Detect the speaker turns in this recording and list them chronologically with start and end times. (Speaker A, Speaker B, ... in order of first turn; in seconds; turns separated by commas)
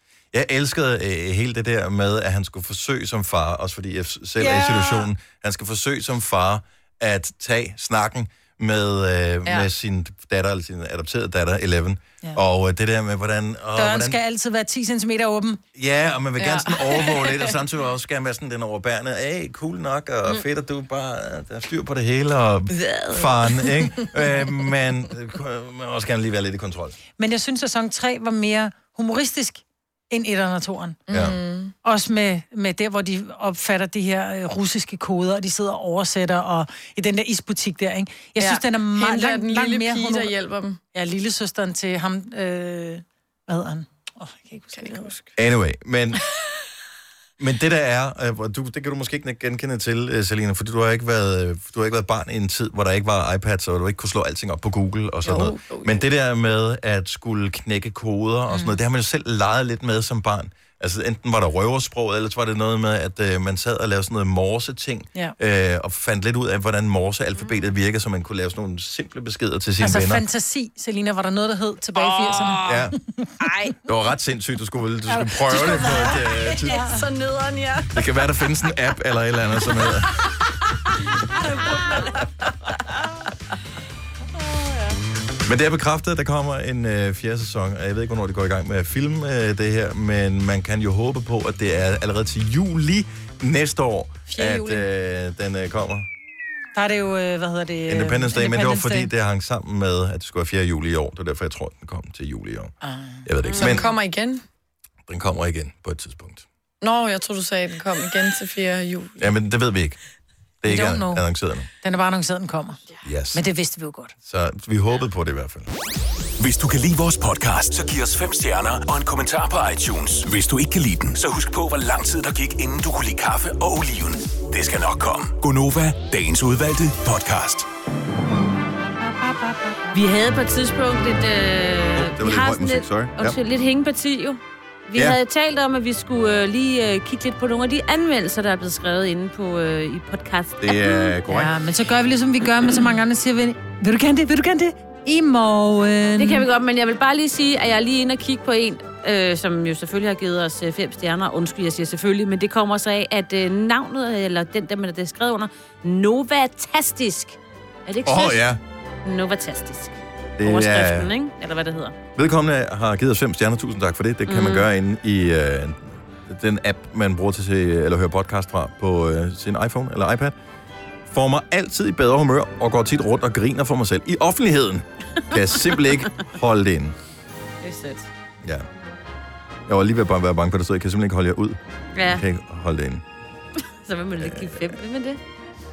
Speaker A: 0.3-14.2, Speaker B: 4.4-5.1, Speaker B: 13.8-15.6, Speaker A: 15.7-27.0, Speaker C: 16.4-17.5, Speaker C: 22.7-23.9, Speaker B: 27.2-31.0, Speaker C: 31.1-31.7, Speaker A: 31.1-31.4, Speaker B: 31.8-40.3, Speaker C: 38.4-40.8, Speaker B: 40.9-45.1, Speaker C: 44.7-45.3, Speaker A: 45.4-46.2, Speaker A: 47.4-70.2, Speaker C: 55.2-56.0, Speaker B: 69.8-73.3, Speaker C: 72.0-72.8, Speaker A: 72.6-72.9, Speaker C: 73.4-73.7, Speaker A: 73.8-76.9, Speaker B: 75.1-77.0, Speaker C: 75.5-76.1, Speaker C: 76.7-78.0, Speaker A: 77.9-80.2, Speaker D: 81.6-82.2, Speaker A: 85.4-96.1, Speaker B: 94.3-94.8, Speaker B: 96.7-99.1, Speaker A: 97.9-102.7, Speaker B: 102.8-103.2, Speaker A: 103.2-103.9, Speaker D: 103.4-103.8, Speaker C: 103.5-104.4, Speaker A: 105.1-106.5, Speaker C: 106.8-109.2, Speaker A: 109.2-110.0, Speaker A: 110.6-111.7, Speaker B: 110.6-111.2, Speaker B: 111.8-112.8, Speaker A: 113.0-113.4, Speaker B: 113.3-114.1, Speaker A: 114.2-115.7, Speaker E: 116.4-127.7, Speaker D: 129.9-141.1, Speaker A: 131.9-133.3, Speaker A: 140.6-141.5, Speaker B: 141.2-146.4, Speaker D: 146.2-161.9, Speaker A: 158.1-158.6, Speaker A: 160.4-161.1, Speaker A: 162.1-170.3, Speaker D: 164.2-164.7, Speaker A: 171.1-176.9, Speaker D: 175.4-176.1, Speaker D: 177.6-178.1, Speaker A: 179.7-183.0, Speaker D: 182.0-182.2, Speaker D: 183.8-185.2, Speaker A: 184.2-184.7